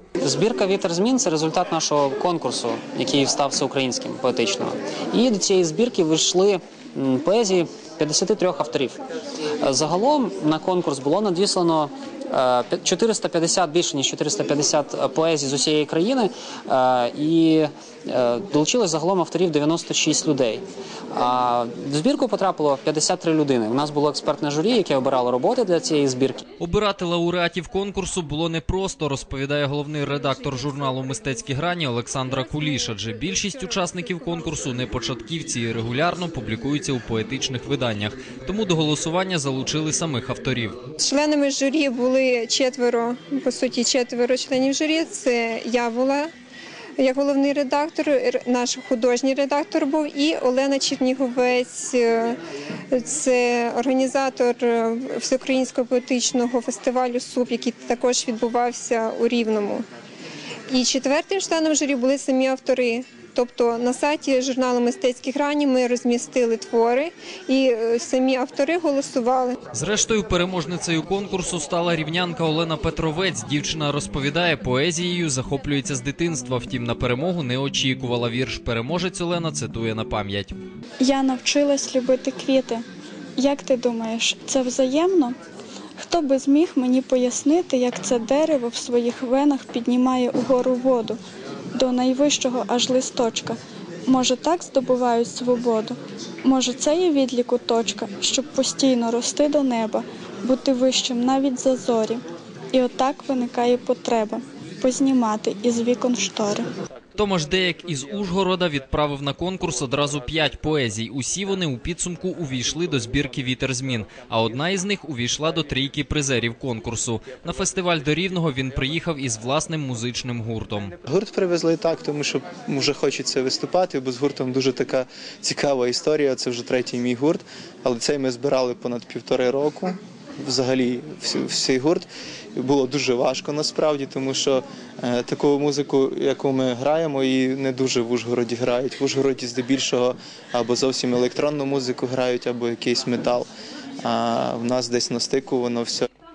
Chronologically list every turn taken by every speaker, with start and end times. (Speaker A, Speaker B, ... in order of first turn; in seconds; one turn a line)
Speaker A: 0.2-9.0
Speaker A: 9.6-26.4
Speaker B: 26.6-40.8
Speaker C: 32.7-34.6
Speaker C: 41.0-46.3
Speaker C: 47.0-52.4
Speaker C: 52.9-59.9
Speaker C: 60.7-69.6
Speaker B: 69.7-80.6
Speaker D: 81.0-82.8
Speaker D: 83.4-85.4
Speaker D: 86.0-91.2
Speaker D: 91.8-102.2
Speaker D: 102.7-106.7
Speaker B: 107.2-120.9
Speaker E: 121.1-143.5
Speaker E: 144.0-146.1